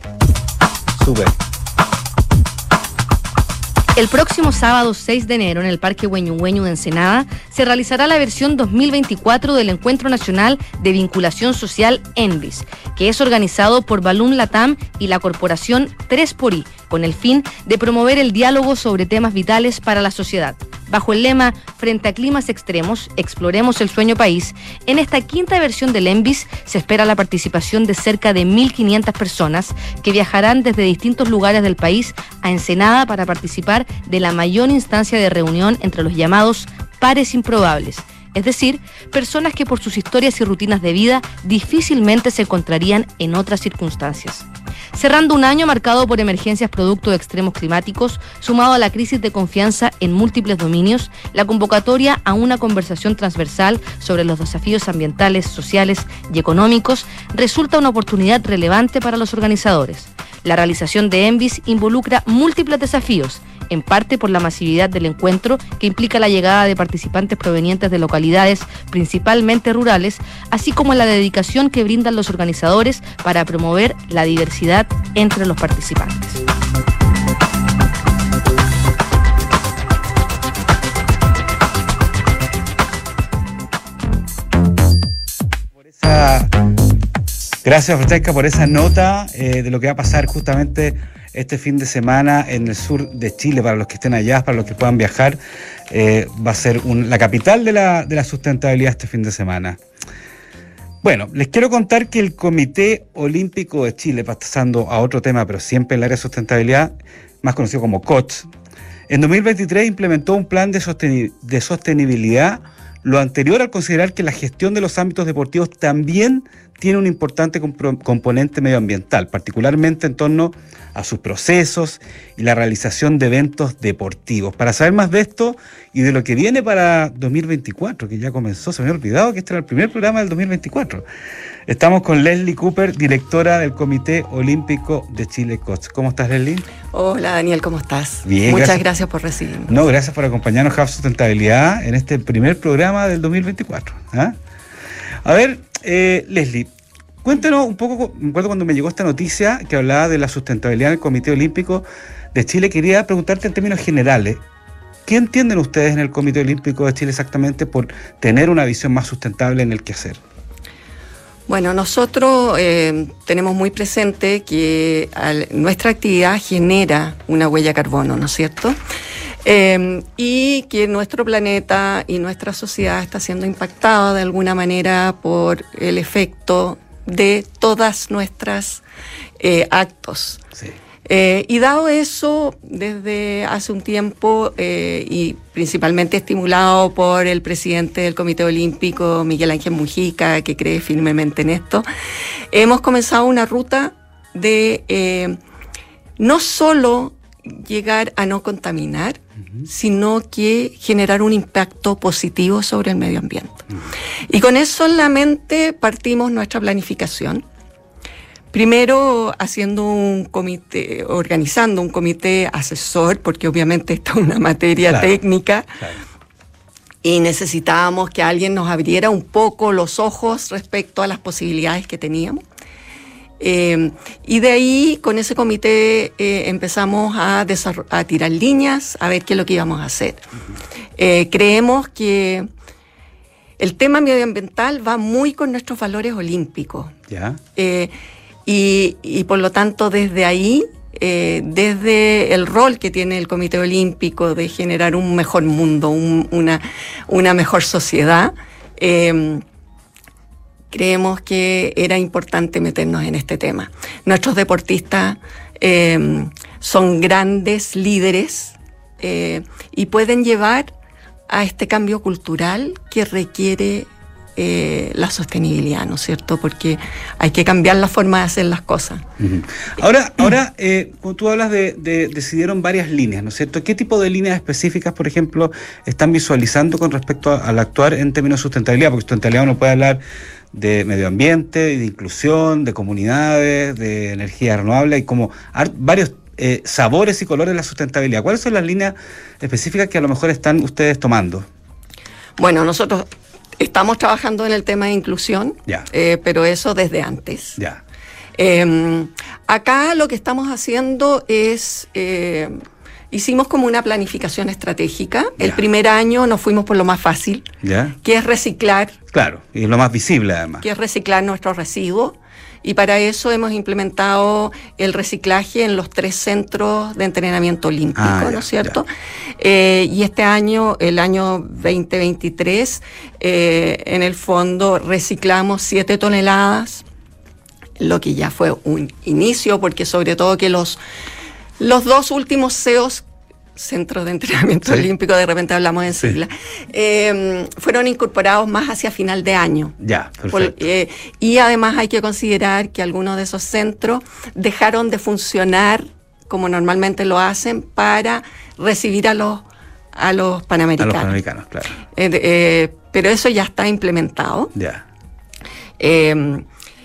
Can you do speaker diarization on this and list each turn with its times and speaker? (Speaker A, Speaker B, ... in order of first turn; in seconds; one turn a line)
Speaker A: 1.0-1.4
Speaker B: 4.0-76.4
Speaker A: 85.9-86.5
Speaker A: 87.6-95.4
Speaker A: 95.9-99.8
Speaker A: 101.0-108.5
Speaker A: 109.1-131.1
Speaker A: 131.7-136.7
Speaker C: 136.9-139.7
Speaker A: 138.3-138.8
Speaker A: 139.7-144.4
Speaker A: 145.2-146.7
Speaker A: 147.2-154.4
Speaker A: 155.1-160.2
Speaker C: 161.5-168.8
Speaker C: 169.4-178.8
Speaker C: 179.4-180.4
Speaker C: 181.1-191.9
Speaker C: 192.5-195.4
Speaker C: 196.2-203.7
Speaker C: 204.3-207.4
Speaker C: 208.5-215.7
Speaker A: 214.9-215.2
Speaker C: 217.0-222.4
Speaker C: 223.4-230.2
Speaker C: 231.0-232.5
Speaker C: 233.6-236.9
Speaker A: 237.1-237.4
Speaker C: 237.6-237.9
Speaker C: 238.5-249.4
Speaker C: 250.7-260.7
Speaker C: 261.3-269.1
Speaker A: 269.2-280.0
Speaker A: 280.5-291.5
Speaker C: 292.4-293.1
Speaker C: 293.6-297.6
Speaker C: 298.4-307.5
Speaker A: 307.6-308.0
Speaker C: 308.0-309.0
Speaker A: 309.1-310.6
Speaker C: 310.6-326.8
Speaker A: 318.0-318.8
Speaker C: 327.8-330.8
Speaker C: 331.6-333.0
Speaker C: 333.6-339.8
Speaker A: 339.8-340.7
Speaker C: 340.3-351.1
Speaker A: 350.8-351.8
Speaker C: 351.9-354.5
Speaker A: 354.6-354.9
Speaker C: 355.8-356.4